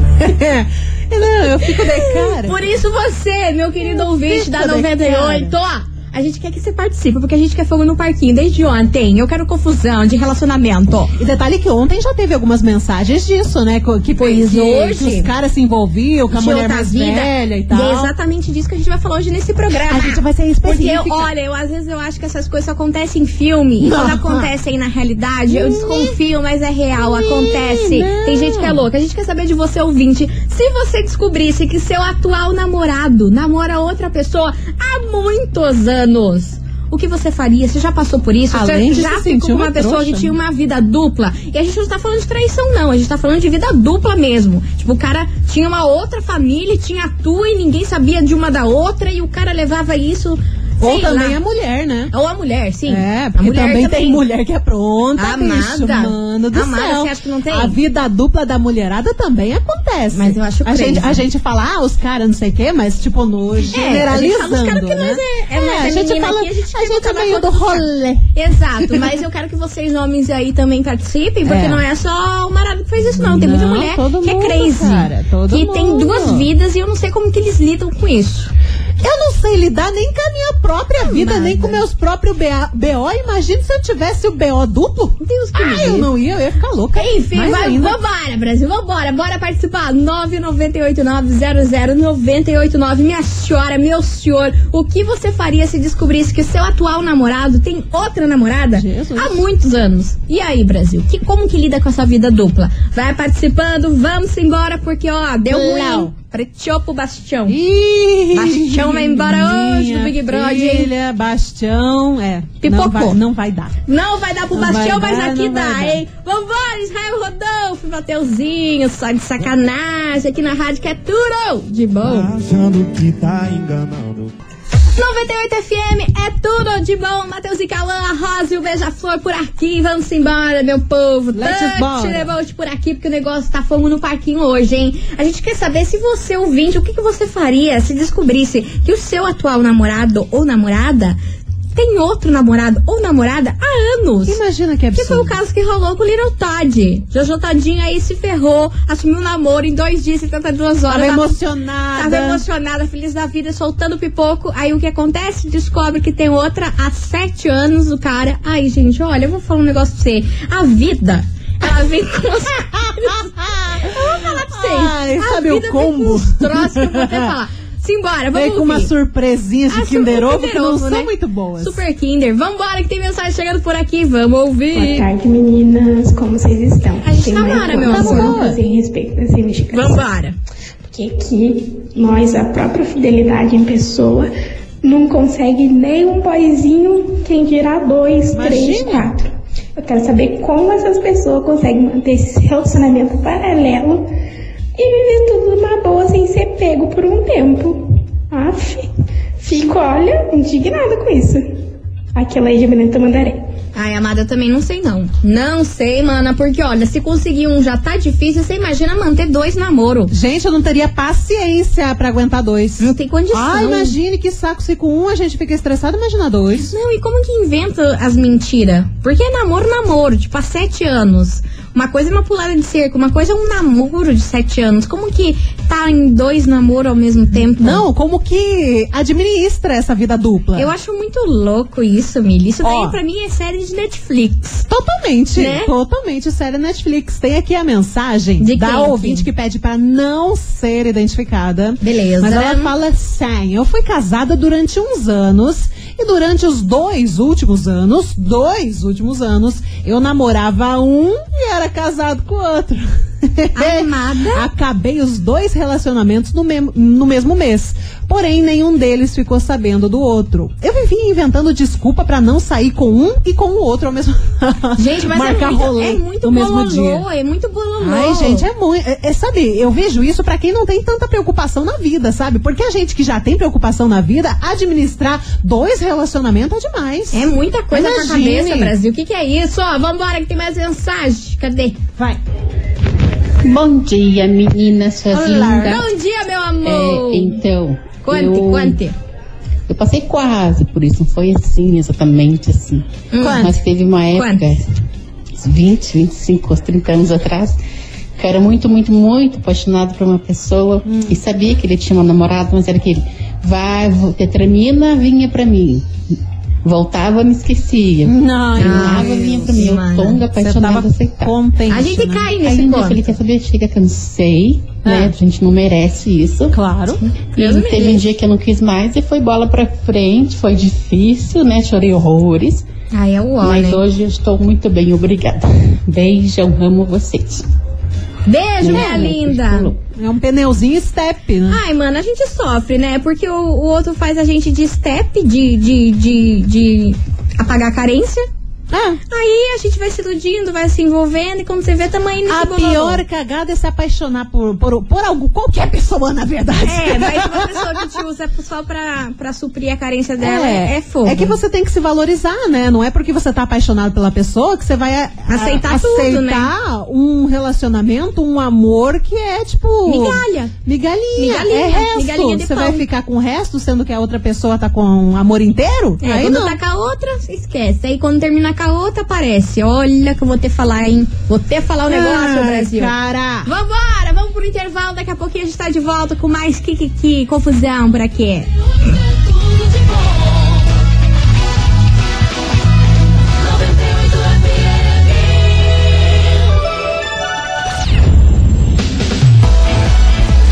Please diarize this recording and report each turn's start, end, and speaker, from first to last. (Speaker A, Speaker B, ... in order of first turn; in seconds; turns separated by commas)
Speaker A: 0.2-2.6, Speaker B: 1.4-11.2, Speaker A: 3.8-5.5, Speaker A: 11.2-18.1, Speaker B: 14.2-15.3, Speaker B: 16.3-51.4, Speaker A: 19.9-21.3, Speaker A: 23.8-24.5, Speaker A: 25.5-26.1, Speaker A: 27.0-28.8, Speaker A: 38.5-40.3, Speaker A: 50.8-52.1, Speaker B: 52.1-54.2, Speaker A: 52.9-68.2, Speaker B: 55.2-57.8, Speaker B: 60.1-61.2, Speaker B: 63.7-78.5, Speaker A: 71.5-71.8, Speaker A: 73.1-76.5, Speaker A: 79.0-88.0, Speaker B: 81.0-81.8, Speaker B: 85.2-86.1, Speaker B: 86.9-107.6, Speaker A: 98.7-99.4, Speaker A: 105.5-106.1, Speaker A: 107.5-113.7, Speaker B: 108.3-110.9, Speaker B: 112.6-113.2, Speaker B: 113.8-122.3, Speaker A: 114.5-116.0, Speaker C: 122.0-124.3, Speaker B: 124.9-141.2, Speaker A: 131.3-132.3, Speaker B: 141.7-144.4, Speaker A: 144.3-145.3, Speaker B: 144.9-151.3, Speaker A: 150.9-152.4, Speaker B: 151.9-168.9, Speaker A: 163.4-167.3, Speaker A: 168.3-171.8, Speaker B: 169.7-175.1, Speaker D: 174.7-180.0, Speaker B: 177.0-178.4, Speaker A: 177.8-178.6, Speaker B: 179.7-180.3, Speaker D: 180.9-184.3, Speaker D: 184.8-194.1, Speaker A: 188.3-189.1, Speaker D: 194.8-201.5, Speaker D: 202.1-203.4, Speaker B: 203.7-210.1, Speaker A: 210.1-216.7, Speaker B: 212.8-214.0, Speaker B: 216.7-227.8, Speaker A: 227.6-230.7, Speaker B: 230.6-234.7, Speaker A: 232.6-233.0, Speaker A: 234.7-267.0, Speaker B: 235.3-235.7, Speaker B: 238.4-239.2, Speaker B: 241.8-242.7, Speaker B: 253.5-254.5, Speaker B: 264.8-268.4, Speaker A: 267.8-278.7, Speaker B: 277.1-281.8, Speaker E: 283.4-285.9, Speaker A: 285.1-285.8, Speaker B: 285.6-287.4, Speaker E: 286.6-288.8, Speaker B: 288.0-288.9, Speaker E: 289.7-294.6, Speaker B: 293.1-293.5, Speaker A: 293.2-293.5, Speaker B: 294.1-294.5, Speaker E: 295.4-297.6, Speaker E: 298.2-305.9, Speaker A: 300.9-301.2, Speaker E: 306.6-311.4, Speaker A: 308.0-309.8, Speaker B: 308.6-310.2, Speaker A: 310.3-312.5, Speaker B: 311.7-313.0, Speaker E: 312.4-316.6, Speaker A: 314.8-315.1, Speaker A: 316.5-317.0, Speaker B: 317.3-318.0, Speaker E: 317.3-322.6, Speaker B: 322.9-323.8, Speaker E: 323.4-327.4, Speaker B: 328.2-329.7, Speaker E: 328.6-329.8, Speaker A: 329.9-331.6, Speaker B: 331.5-338.2, Speaker A: 338.7-339.0, Speaker B: 339.1-343.0, Speaker A: 342.3-347.7, Speaker B: 346.6-351.4, Speaker A: 350.2-366.6, Speaker B: 355.3-356.5, Speaker B: 359.8-360.5, Speaker B: 361.1-362.8, Speaker B: 366.0-372.9, Speaker A: 371.9-373.5, Speaker B: 373.4-378.5